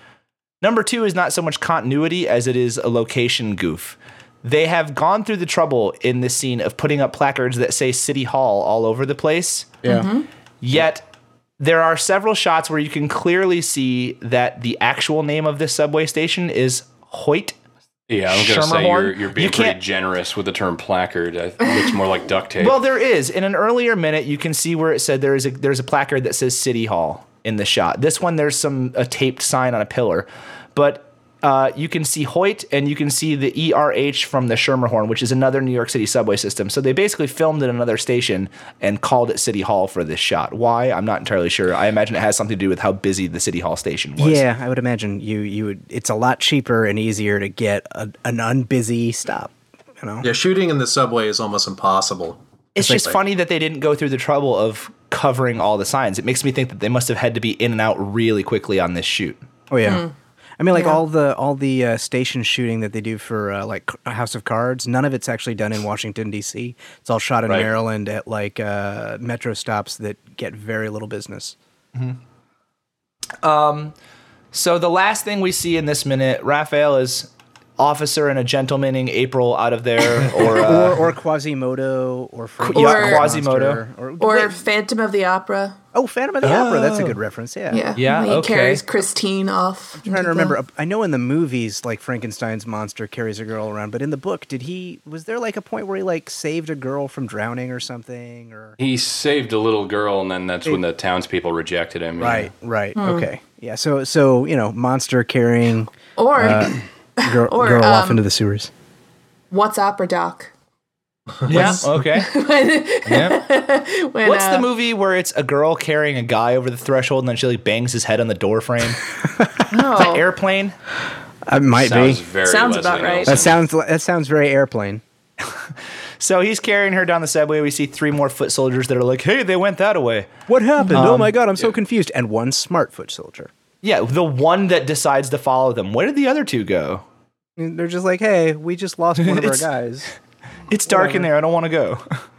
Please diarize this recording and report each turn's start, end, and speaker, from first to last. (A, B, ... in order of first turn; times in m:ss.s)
0:00.6-0:10.0 A
0:09.9-0:10.3 B
0:10.6-0:11.0 A
0:11.6-0:17.6 A
0:18.1-0:22.8 C
0:18.3-0:19.8 A
0:22.6-0:44.4 A
0:44.2-0:50.3 D
0:50.2-0:53.2 E
0:52.7-0:59.4 A
0:59.7-1:00.0 D
0:59.9-1:00.1 B
1:00.6-1:11.6 D
1:13.4-1:13.9 A
1:14.5-1:21.0 A
1:20.4-1:24.6 D
1:22.6-1:23.2 B
1:22.7-1:23.8 A
1:24.2-1:25.8 B
1:25.9-1:27.8 D
1:26.4-1:27.2 A
1:27.7-1:30.6 B
1:28.0-1:28.8 A
1:30.0-1:38.8 D
1:38.8-1:42.5 C
1:42.2-1:48.7 D
1:43.0-1:43.3 B
1:46.2-1:48.2 B
1:49.5-1:50.5 B
1:51.4-1:52.3 A
1:51.5-1:54.7 B
1:53.0-1:53.4 A
1:54.2-1:59.0 A
1:59.7-2:00.2 B
1:59.9-2:00.7 A
2:01.5-2:02.2 D
2:01.7-2:03.5 C
2:02.4-2:03.4 B
2:03.3-2:05.0 D
2:06.2-2:10.3 A
2:10.5-2:13.5 D
2:10.9-2:11.3 A
2:13.8-2:17.0 A
2:17.6-2:20.1 D
2:19.2-2:19.7 A
2:20.7-2:22.1 A
2:20.9-2:21.3 D